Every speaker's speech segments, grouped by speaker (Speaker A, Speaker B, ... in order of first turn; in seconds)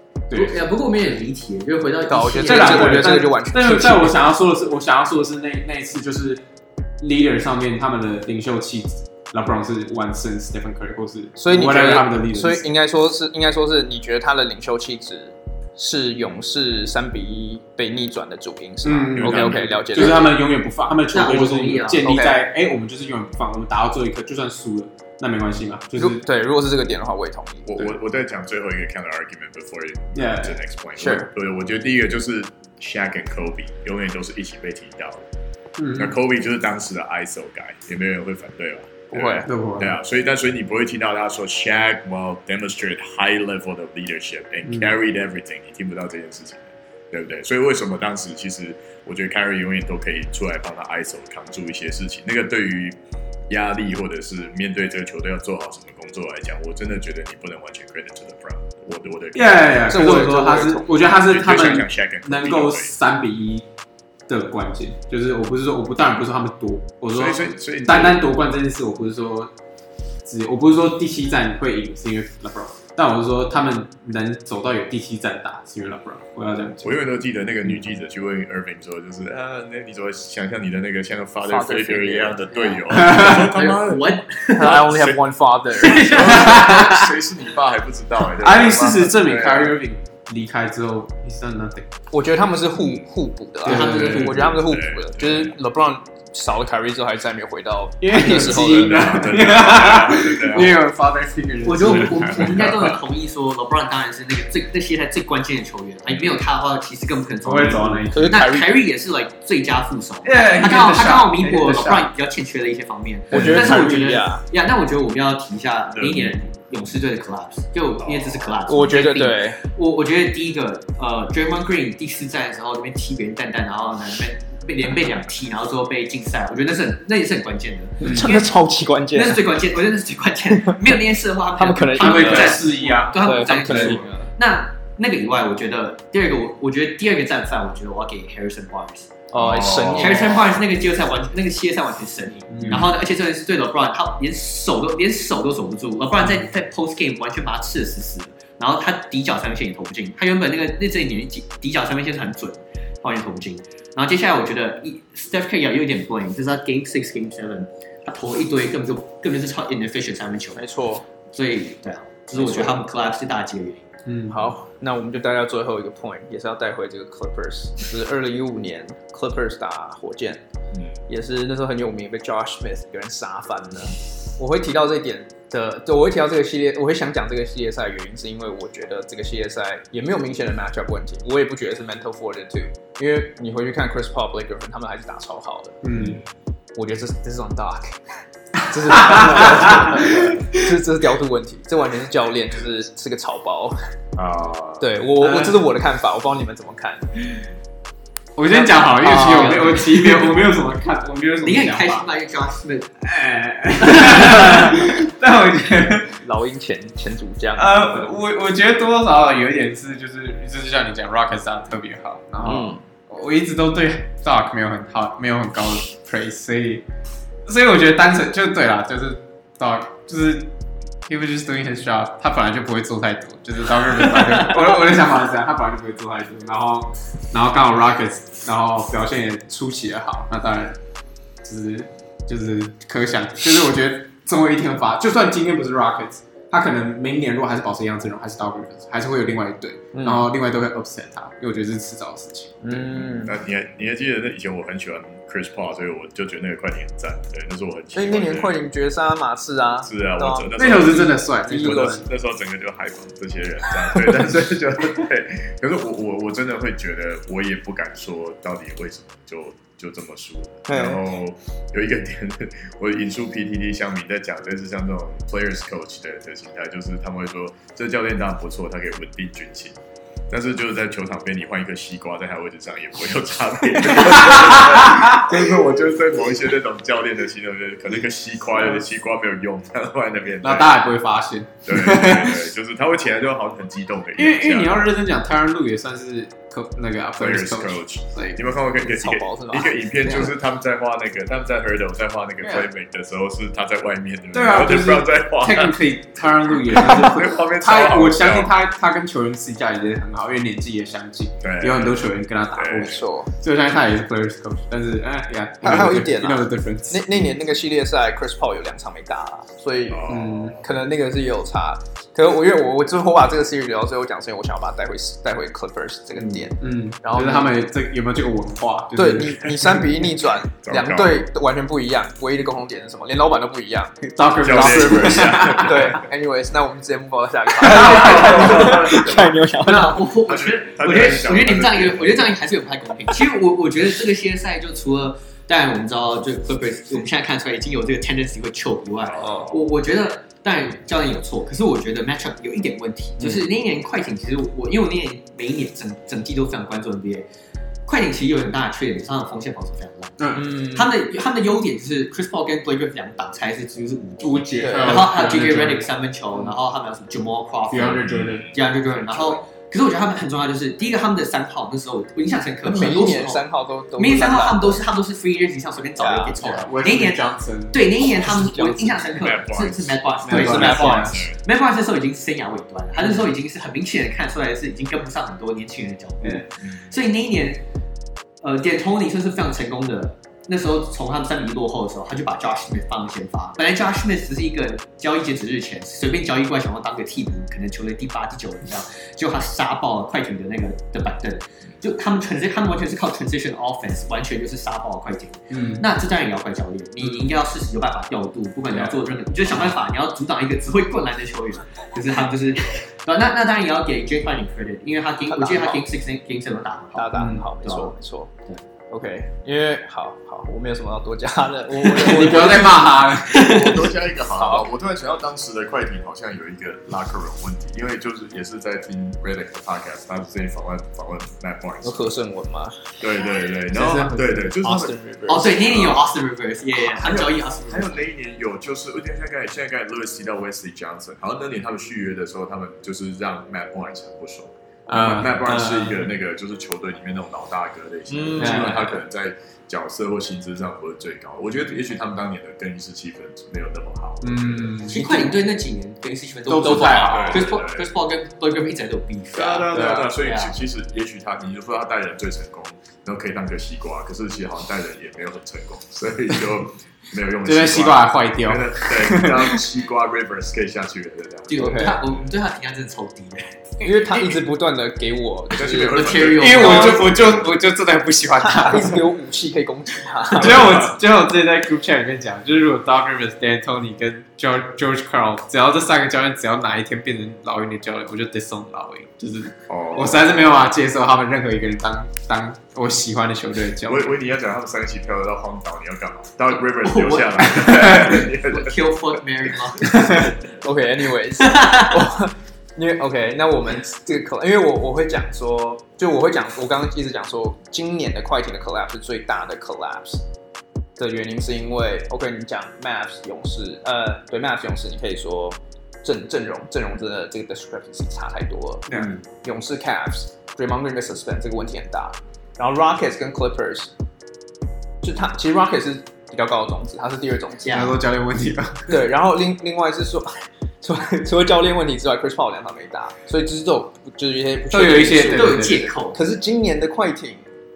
Speaker A: 0.3-0.6, 2.5-6.4, 7.0-12.7, 18.8-26.2, 30.1-30.6, 35.8-36.2, 39.5-40.0, 59.3-63.6, 64.3-69.5, 70.2-77.0, 82.9-83.5, 86.2-87.1, 88.3-91.9, 93.6-94.6, 98.0-103.0, 107.4-108.4, 110.2-112.1, 113.3-114.1, 128.0-128.3, 131.9-134.0, 142.5-142.9, 164.1-164.5, 185.8-186.2, 188.7-190.7, 195.2-195.6, 198.4-202.1, 203.1-206.2, 207.6-216.8, 217.5-220.5, 221.1-230.8, 231.4-242.8, 250.6-252.1, 274.1-275.2, 280.4-282.5, 284.2-288.4, 292.4-292.7, 294.3-307.2, 310.1-310.6, 316.6-319.8, 324.1-326.0, 327.6-329.0, 350.2-350.5, 354.2-355.9, 357.7-358.6, 366.3-369.0, 370.2-371.2, 395.5-395.8, 407.1-407.5, 411.8-413.6, 423.7-424.5, 434.9-436.1, 438.4-438.9, 444.2-445.1, 446.5-447.5, 457.4-459.6, 466.4-469.0, 470.3-484.1, 487.6-488.2, 517.7-519.0, 524.7-525.9
Speaker B: 0.3-3.1, 21.1-22.2, 83.2-84.9, 85.8-86.5, 101.6-128.5, 129.1-139.1, 140.0-160.6, 161.3-163.9, 198.5-200.5, 201.4-203.1, 203.8-204.8, 329.6-347.3, 347.9-363.4, 364.0-377.6, 378.4-407.9, 413.3-413.8, 425.3-428.1, 444.9-450.6, 461.5-463.6, 465.9-467.1, 486.6-490.2, 491.4-491.9, 509.0-509.2, 517.6-518.0, 525.3-526.2
Speaker C: 2.1-4.2, 11.4-20.4, 22.0-22.5, 26.0-27.9, 31.0-31.3, 39.1-39.5, 59.9-61.1, 81.5-83.1, 84.5-86.5, 92.1-99.5, 108.1-108.8, 113.3-114.4, 118.7-119.6, 128.0-129.5, 130.5-131.0, 131.5-134.3, 139.3-140.5, 160.6-161.1, 162.3-162.8, 164.3-170.4, 171.1-185.8, 186.8-188.0, 188.7-193.8, 194.8-197.3, 198.8-199.9, 206.2-208.2, 212.4-212.8, 239.9-240.3, 242.6-243.4, 247.9-252.0, 260.7-261.0, 288.8-290.4, 302.8-303.3, 305.6-310.1, 310.6-317.5, 318.9-330.1, 350.3-350.9, 354.6-355.1, 362.6-364.8, 366.0-366.6, 368.0-369.1, 370.3-371.2, 405.3-405.9, 406.9-408.3, 408.9-412.9, 414.3-414.7, 421.8-423.0, 424.6-425.7, 438.1-439.0, 444.9-445.4, 449.7-450.1, 461.6-462.0, 463.8-467.1, 468.4-470.9, 489.8-500.2, 501.0-513.9, 515.0-517.9, 518.9-527.5
Speaker D: 19.1-20.3, 27.7-35.3, 36.0-53.0, 53.5-60.0, 61.0-62.9, 67.1-68.3, 76.8-85.2, 85.9-89.8, 93.7-95.6, 98.2-100.8, 101.8-102.9, 106.1-106.4, 115.9-116.4, 118.0-118.6, 139.3-140.5, 142.6-142.9, 185.9-186.3, 194.2-194.9, 243.0-248.6, 249.8-269.8, 270.3-280.8, 281.7-284.9, 287.2-295.8, 296.6-298.5, 301.4-302.0, 302.6-303.0, 305.7-305.9, 309.9-310.6, 320.6-321.2, 324.4-326.0, 327.6-329.4, 330.2-332.3, 339.1-339.6, 358.0-358.6, 369.1-371.4, 376.6-376.9, 413.3-422.0, 423.0-426.1, 426.9-444.8, 446.6-447.9, 449.3-462.3, 465.5-467.5, 470.4-470.9, 479.7-480.5, 483.9-488.9